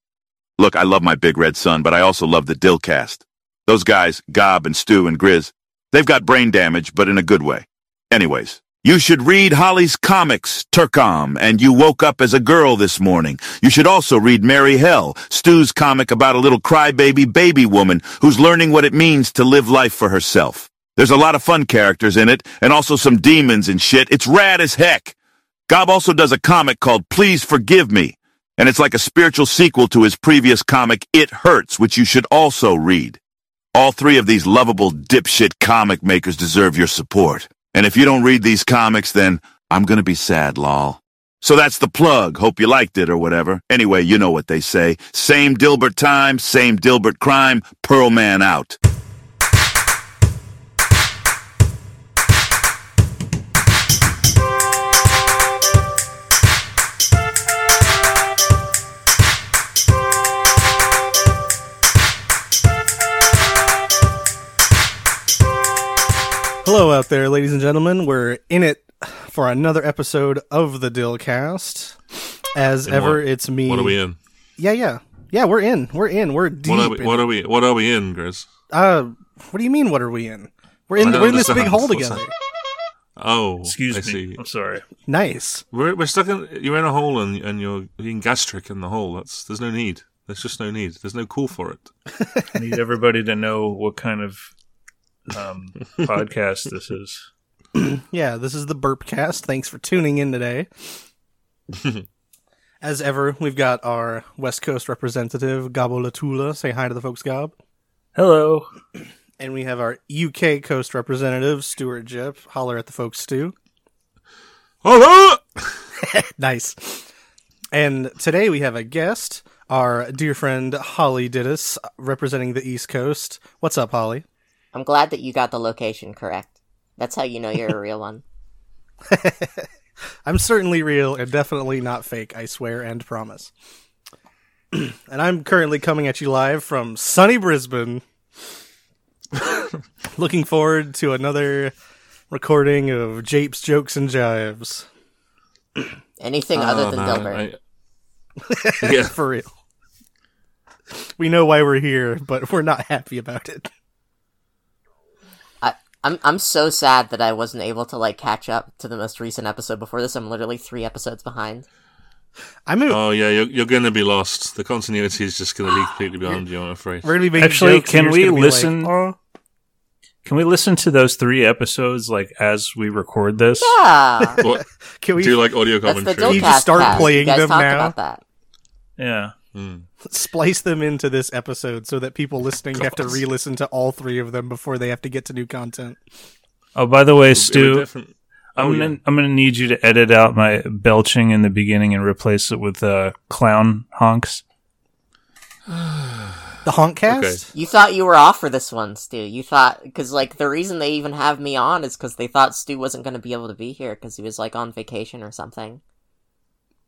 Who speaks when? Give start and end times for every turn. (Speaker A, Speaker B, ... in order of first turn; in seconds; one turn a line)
Speaker A: 0.6-25.1
Speaker A: 25.7-33.2
Speaker A: 33.7-48.8
Speaker B: 66.6-72.0
Speaker B: 72.5-74.0
Speaker C: 72.9-74.2
Speaker B: 74.6-77.3
Speaker C: 76.7-78.5
Speaker B: 78.7-82.3
Speaker C: 81.0-82.2
Speaker C: 83.2-84.4
Speaker D: 83.7-84.8
Speaker B: 85.1-85.6
Speaker C: 85.7-91.9
Speaker B: 92.2-92.5
Speaker D: 92.5-94.5
Speaker D: 95.3-97.3
Speaker B: 97.8-100.7
Speaker C: 101.7-102.0
Speaker B: 102.8-107.5
Speaker D: 108.2-108.7
Speaker B: 109.4-113.5
Speaker C: 114.8-115.7
Speaker B: 116.4-117.1
Speaker B: 117.7-124.2
Speaker E: 124.7-128.2
Speaker B: 129.1-129.7
Speaker B: 130.2-133.5
Speaker B: 134.7-138.0
Speaker B: 140.1-141.7
Speaker B: 142.3-144.9
Speaker E: 146.2-147.4
Speaker C: 146.6-147.6
Speaker B: 148.4-149.5
Speaker C: 148.8-149.1
Speaker B: 151.2-153.7
Speaker E: 155.6-161.7
Speaker B: 162.7-163.0
Speaker C: 162.9-167.2
Speaker B: 167.0-169.2
Speaker D: 167.4-168.9
Speaker D: 170.2-173.7
Speaker E: 173.6-174.4
Speaker B: 174.4-175.4
Speaker C: 175.2-177.1
Speaker E: 175.8-178.2
Speaker B: 176.2-177.9
Speaker D: 179.0-179.3
Speaker C: 179.5-179.9
Speaker B: 180.1-186.0
Speaker C: 182.8-183.2
Speaker D: 186.8-187.9
Speaker C: 187.3-189.0
Speaker D: 188.6-194.4
Speaker C: 195.7-197.4
Speaker B: 196.6-197.5
Speaker E: 197.5-205.8